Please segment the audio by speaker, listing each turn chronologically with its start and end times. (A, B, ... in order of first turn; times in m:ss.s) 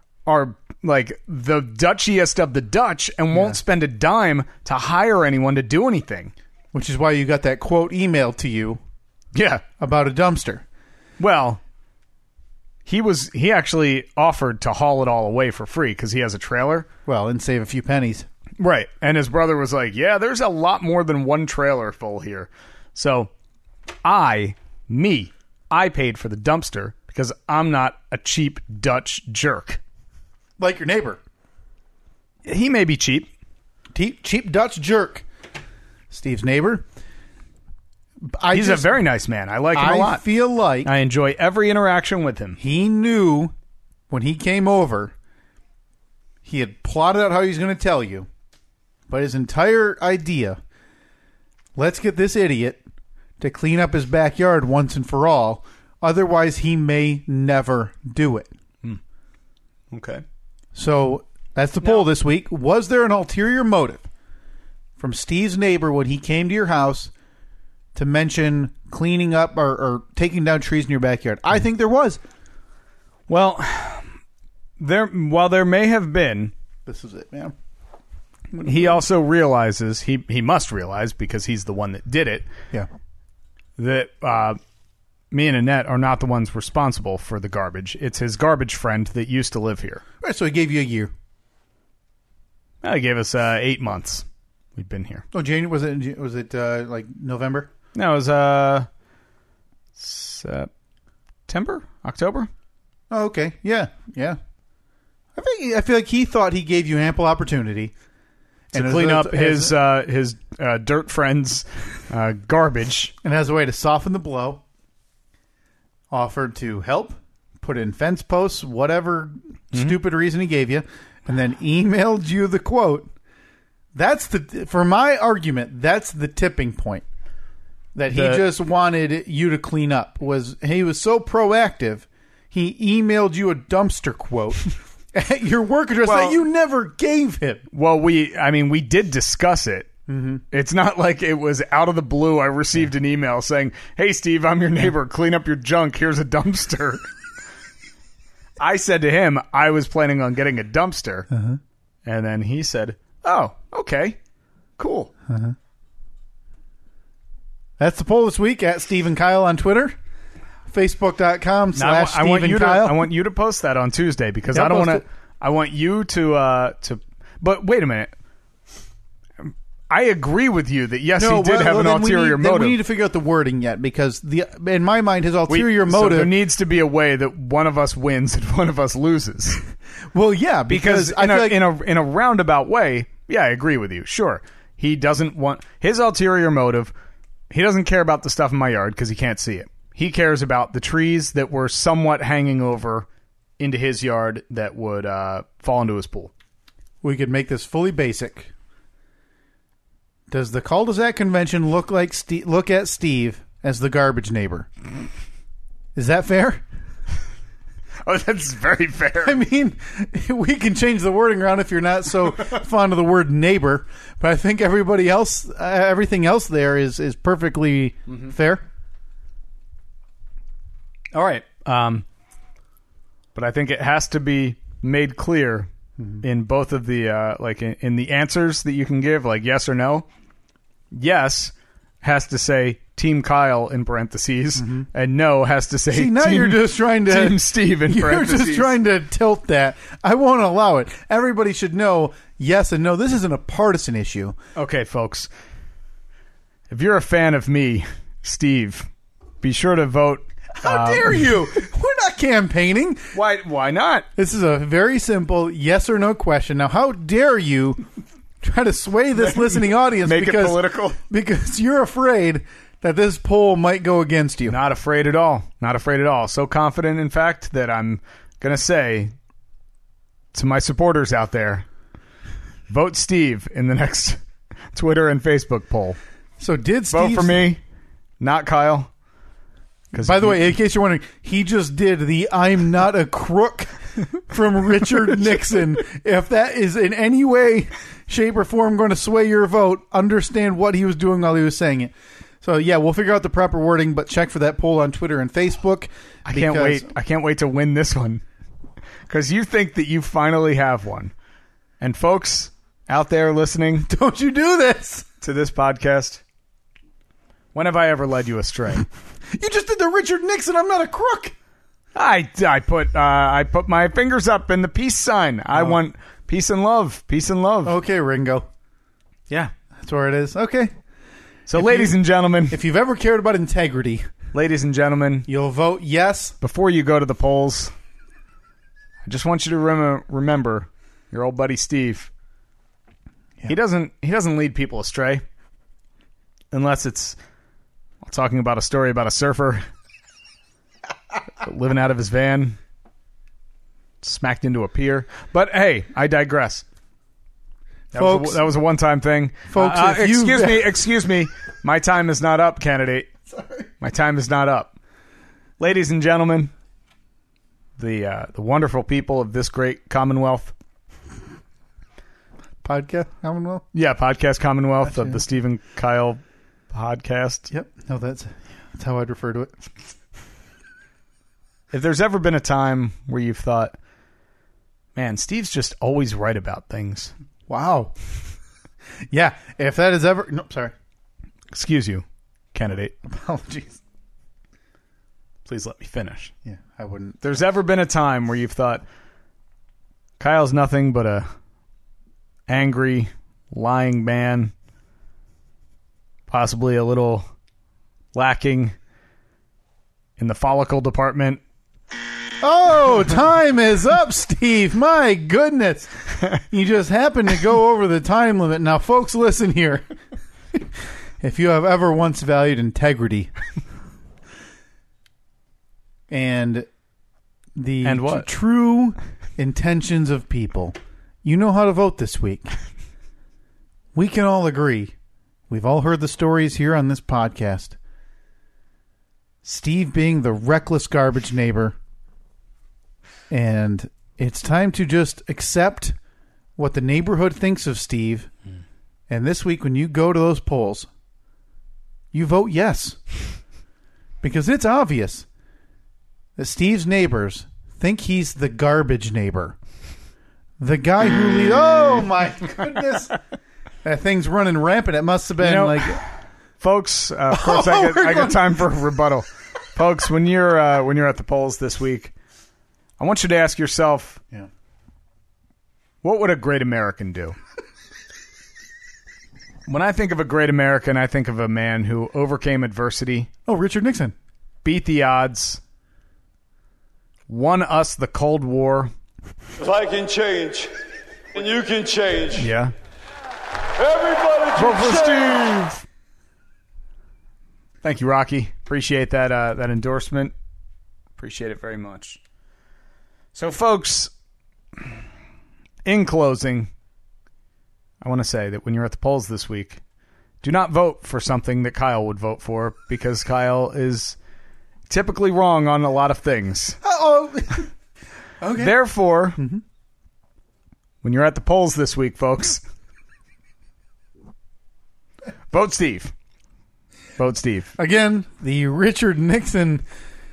0:00.2-0:06.3 A
0:03.3-0:03.6 B
0:06.7-0:08.8 B
0:09.3-0:09.6 A
0:09.8-0:10.6 B
0:11.2-0:11.6 A
0:12.8-0:16.9 A
0:17.0-0:18.3 B
0:18.6-0:23.3 A
0:24.0-0:29.8 A
0:30.6-0:31.2 B
0:32.4-0:33.3 A
0:33.9-0:35.2 B
0:36.1-0:36.8 B
0:38.2-0:39.0 B
0:38.5-0:40.2 A
0:39.7-0:40.9 B
0:40.8-0:42.6 A
0:42.6-0:43.5 B
0:44.1-0:45.1 B
0:46.4-0:48.3 B
0:49.1-0:50.6 B
0:51.8-0:52.8 B
0:53.4-0:58.5 B
0:59.9-1:00.2 A
1:00.7-1:04.1 B
1:05.0-1:07.1 B
1:07.9-1:12.2 B
1:13.3-1:14.1 A
1:14.8-1:16.5 A
1:16.8-1:17.6 B
1:18.5-1:19.0 B
1:18.6-1:22.5 A
1:23.8-1:24.6 A
1:25.3-1:30.0 A
1:30.2-1:31.1 B
1:32.8-1:35.2 A
1:35.3-1:37.7 B
1:37.9-1:38.9 A
1:40.0-1:40.7 A
1:41.5-1:42.5 A
1:43.1-1:44.4 B
1:45.3-1:47.9 B
1:48.7-1:49.8 B
1:48.7-1:53.1 A
1:53.2-1:54.6 B
1:56.1-2:03.1 B
2:03.9-2:07.0 B
2:07.9-2:17.7 B
2:08.1-2:08.4 A
2:16.0-2:16.4 A
2:17.7-2:19.9 A
2:20.1-2:20.4 B
2:20.5-2:27.0 A
2:28.6-2:31.3 A
2:31.3-2:31.6 B
2:32.0-2:34.2 A
2:34.8-2:35.1 A
2:35.3-2:35.6 B
2:37.8-2:40.0 B
2:40.7-2:43.1 B
2:41.7-2:48.1 A
2:44.5-2:45.0 B
2:49.4-2:52.8 A
2:51.2-2:56.3 B
2:55.5-2:59.6 A
3:00.1-3:01.6 B
3:00.7-3:06.9 A
3:07.5-3:13.1 A
3:13.6-3:16.3 A
3:17.0-3:18.5 B
3:20.3-3:24.7 B
3:25.9-3:26.6 B
3:28.0-3:29.4 A
3:29.2-3:38.6 B
3:41.1-3:42.0 A
3:43.3-3:45.7 A
3:46.0-3:46.2 B
3:46.2-3:50.1 A
3:50.9-3:58.8 A
3:54.6-3:54.9 B
3:55.9-4:04.4 B
4:04.6-4:05.3 A
4:06.7-4:08.9 A
4:09.4-4:11.2 A
4:10.6-4:13.1 B
4:13.1-4:14.0 A
4:14.2-4:17.8 B
4:18.4-4:24.6 B
4:19.2-4:21.0 A
4:24.5-4:29.1 A
4:30.3-4:31.6 A
4:32.7-4:34.2 A
4:34.7-4:36.0 A
4:36.4-4:37.4 B
4:36.9-4:37.6 A
4:38.2-4:38.9 A
4:39.9-4:40.4 A
4:40.0-4:56.9 B
4:56.2-4:58.2 A
4:59.1-5:01.1 A
5:01.8-5:03.9 A
5:03.9-5:05.1 B
5:05.2-5:06.2 A
5:07.5-5:08.8 A
5:09.3-5:11.3 B
5:11.9-5:17.7 A
5:17.6-5:18.5 B
5:19.3-5:20.7 B
5:21.5-5:22.6 A
5:21.5-5:22.0 B
5:22.5-5:24.1 B
5:24.3-5:25.3 A
5:25.3-5:26.4 B
5:26.4-5:27.7 A
5:29.0-5:32.1 A
5:33.4-5:35.2 A
5:36.5-5:37.2 A
5:38.0-5:39.6 A
5:41.4-5:42.6 A
5:44.0-5:46.6 A
5:47.9-5:48.4 B
5:47.9-5:53.1 A
5:49.5-5:50.7 B
5:53.8-5:54.7 A
5:55.6-5:56.5 A
5:57.8-6:00.5 A
6:02.6-6:03.6 B
6:03.7-6:07.5 A
6:04.8-6:05.2 B
6:07.5-6:09.5 B
6:11.7-6:13.7 A
6:14.9-6:17.1 A
6:17.5-6:17.9 B
6:19.1-6:20.7 B
6:21.5-6:22.9 A
6:23.0-6:23.8 B
6:25.4-6:26.3 A
6:26.4-6:27.2 B
6:27.2-6:28.8 A
6:30.2-6:31.3 A
6:32.5-6:34.5 A
6:36.3-6:37.2 A
6:38.1-6:38.7 A
6:40.2-6:41.4 A
6:42.4-6:49.8 B
6:51.2-6:53.3 B
6:56.1-6:56.7 B
6:57.6-7:02.5 B
6:57.8-6:58.3 A
7:03.9-7:04.9 B
7:05.5-7:07.8 B
7:09.4-7:11.8 B
7:13.3-7:16.0 B
7:16.6-7:18.3 B
7:19.1-7:20.9 B
7:22.1-7:23.0 B
7:24.2-7:25.2 B
7:26.4-7:29.6 B
7:30.6-7:33.2 B
7:33.8-7:36.0 B
7:35.4-7:42.1 A
7:37.3-7:38.6 B
7:43.0-7:44.2 A
7:46.0-7:47.4 A
7:49.7-7:53.3 A
7:53.4-7:54.1 B
7:54.6-7:55.6 A
7:57.3-7:58.9 A
7:59.6-8:00.7 C
8:01.3-8:02.5 C
8:02.3-8:02.7 A
8:03.8-8:05.3 C
8:04.5-8:05.8 A
8:07.8-8:10.3 A
8:11.2-8:12.2 A
8:13.3-8:14.1 A
8:15.8-8:16.7 A
8:18.0-8:19.8 A
8:20.4-8:24.2 A
8:24.9-8:26.8 A
8:26.8-8:27.7 B
8:28.4-8:28.8 B
8:28.5-8:29.4 A
8:29.4-8:29.6 B
8:31.0-8:32.6 A
8:35.5-8:36.1 A
8:37.2-8:37.7 A
8:37.8-8:39.8 B